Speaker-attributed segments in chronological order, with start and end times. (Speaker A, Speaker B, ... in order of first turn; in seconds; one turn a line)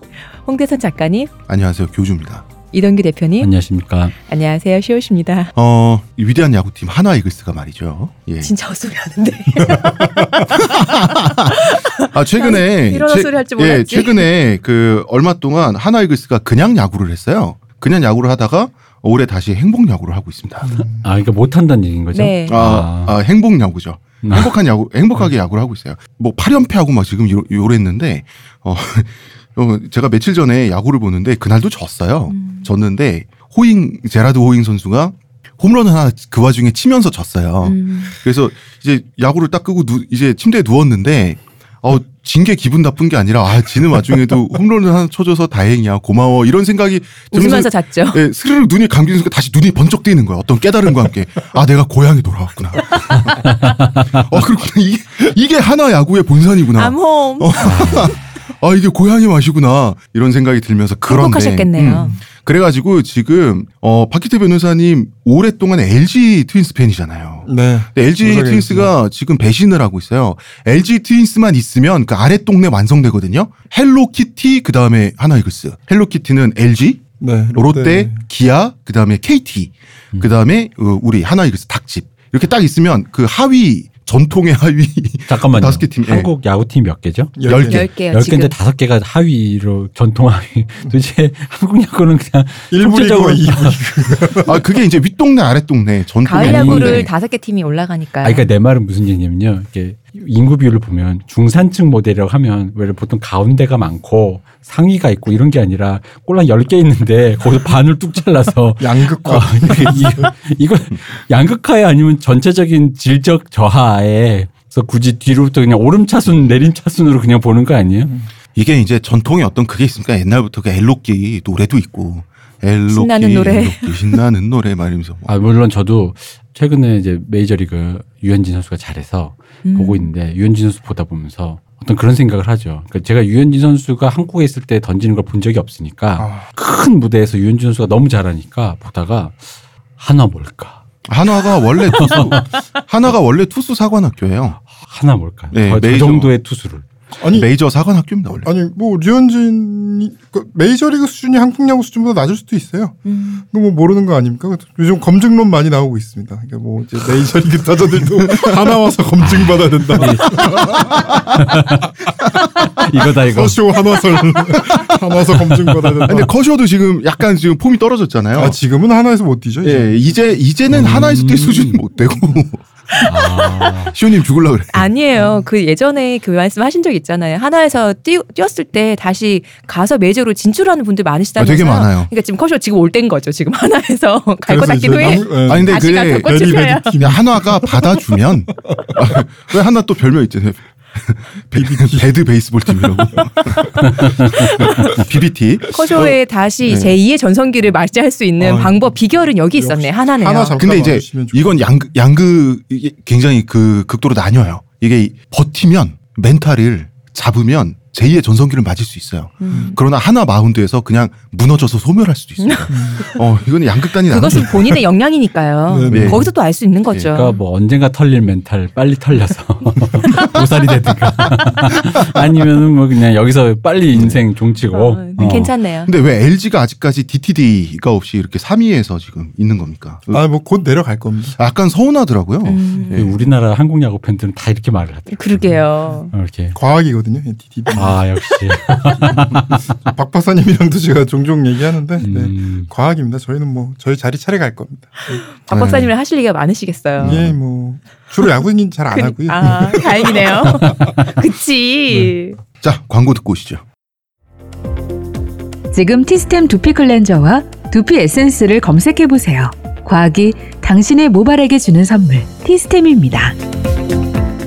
Speaker A: 0.3-1.3
Speaker B: 1.5-2.5
Speaker A: 2.7-3.5
Speaker C: 3.4-4.1
Speaker A: 4.2-5.5
Speaker B: 5.5-8.5
Speaker A: 8.4-14.3
Speaker B: 10.5-20.7
Speaker D: 20.6-21.0
Speaker C: 20.8-23.1
Speaker A: 22.1-22.6
Speaker B: 22.5-86.3
Speaker C: 24.2-24.5
Speaker A: 32.3-32.7
Speaker A: 37.6-38.1
Speaker A: 47.3-48.2
Speaker C: 53.4-54.2
Speaker A: 56.7-58.0
Speaker C: 57.6-58.1
Speaker A: 61.1-62.1
Speaker D: 67.5-68.9
Speaker D: 77.2-78.2
Speaker C: 85.3-93.8
Speaker D: 87.4-87.8
Speaker B: 87.5-87.9
Speaker A: 87.7-88.5
Speaker D: 92.7-94.6
Speaker B: 94.4-97.1
Speaker A: 96.2-98.5
Speaker C: 96.4-97.1
Speaker C: 98.2-118.1
Speaker D: 108.8-110.3
Speaker B: 118.5-125.3
Speaker A: 122.9-124.0
Speaker C: 125.2-139.4
Speaker A: 129.6-130.1
Speaker D: 136.2-136.4
Speaker C: 140.0-140.8
Speaker B: 141.1-144.6
Speaker C: 142.0-142.3
Speaker C: 144.7-146.8
Speaker B: 145.5-146.3
Speaker D: 147.2-147.5
Speaker B: 147.3-148.5
Speaker D: 148.4-161.0
Speaker A: 153.1-153.4
Speaker B: 157.3-158.7
Speaker B: 159.9-161.4
Speaker C: 160.0-161.9
Speaker C: 162.8-163.8
Speaker D: 163.2-166.3
Speaker B: 164.5-164.8
Speaker C: 165.4-165.9
Speaker B: 166.0-168.6
Speaker D: 168.3-169.9
Speaker B: 169.6-174.9
Speaker C: 170.7-171.8
Speaker C: 173.0-173.9
Speaker A: 173.1-173.5
Speaker A: 174.7-187.1
Speaker D: 175.2-175.4
Speaker B: 181.4-182.1
Speaker D: 184.4-187.8
Speaker B: 185.2-196.9
Speaker D: 191.5-192.2
Speaker C: 193.8-194.5
Speaker A: 194.6-194.9
Speaker A: 195.7-200.6
Speaker D: 198.4-201.6
Speaker B: 200.6-214.8
Speaker A: 209.4-209.8
Speaker D: 209.5-209.8
Speaker A: 212.5-213.2
Speaker D: 212.7-213.0
Speaker A: 214.1-217.4
Speaker D: 215.7-216.2
Speaker B: 215.9-216.3
Speaker C: 217.1-225.5
Speaker B: 223.9-224.2
Speaker A: 224.7-225.9
Speaker B: 225.2-230.2
Speaker D: 230.1-231.4
Speaker B: 231.3-233.2
Speaker A: 232.4-233.1
Speaker C: 232.9-236.6
Speaker A: 235.1-236.1
Speaker D: 236.5-245.2
Speaker C: 237.7-239.6
Speaker C: 242.0-242.7
Speaker A: 245.1-247.2
Speaker B: 245.5-245.9
Speaker B: 247.0-247.3
Speaker D: 247.0-250.8
Speaker A: 248.9-252.4
Speaker B: 252.6-253.6
Speaker E: 255.7-263.4